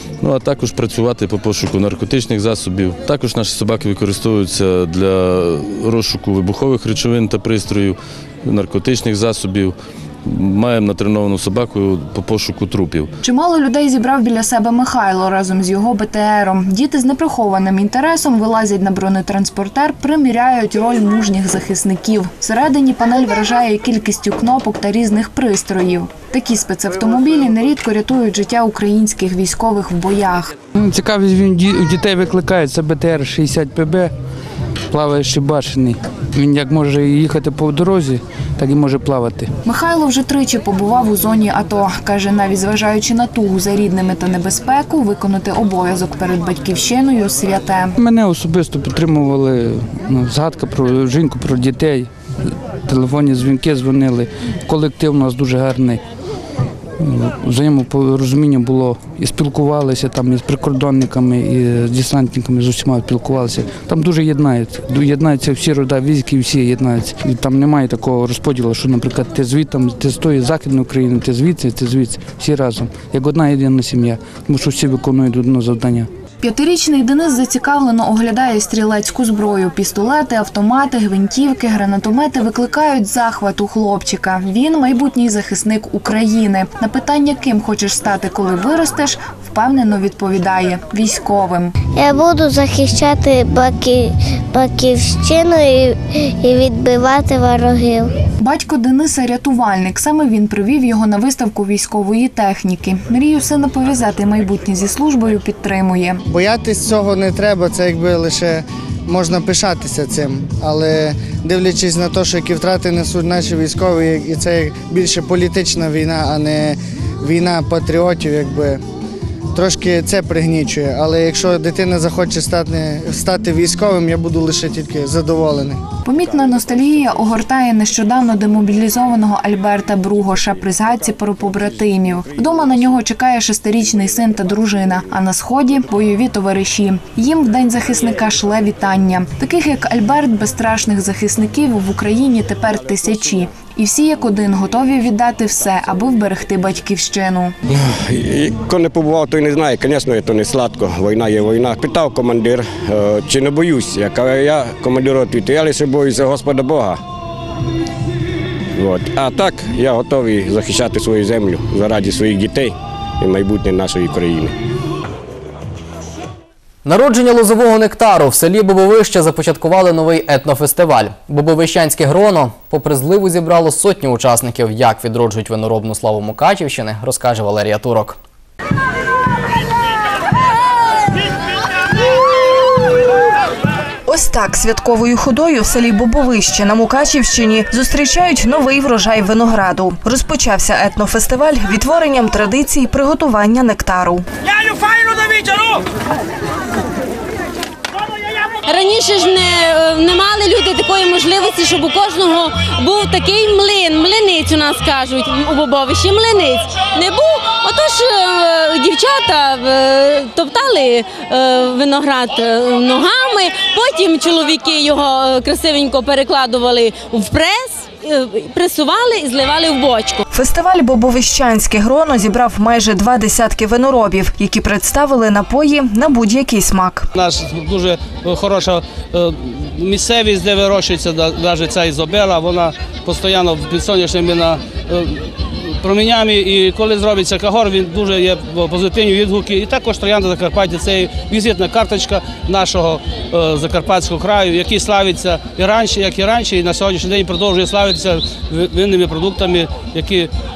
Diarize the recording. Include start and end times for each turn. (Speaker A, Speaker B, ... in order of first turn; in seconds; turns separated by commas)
Speaker A: 0.2-13.1, Speaker B: 13.2-30.5, Speaker C: 30.8-34.1, Speaker C: 34.9-39.5, Speaker B: 39.6-48.0, Speaker C: 48.0-56.0, Speaker C: 57.0-76.1, Speaker B: 76.4-91.7, Speaker D: 92.0-93.9, Speaker D: 94.5-95.9, Speaker D: 96.4-96.7, Speaker D: 97.8-98.1, Speaker B: 98.4-106.2, Speaker E: 106.3-118.8, Speaker E: 119.5-125.8, Speaker B: 126.0-147.5, Speaker F: 147.7-157.0, Speaker F: 158.8-164.5, Speaker G: 166.8-178.2, Speaker H: 184.1-194.2, Speaker I: 198.7-220.2, Speaker H: 220.3-227.1, Speaker J: 227.2-250.3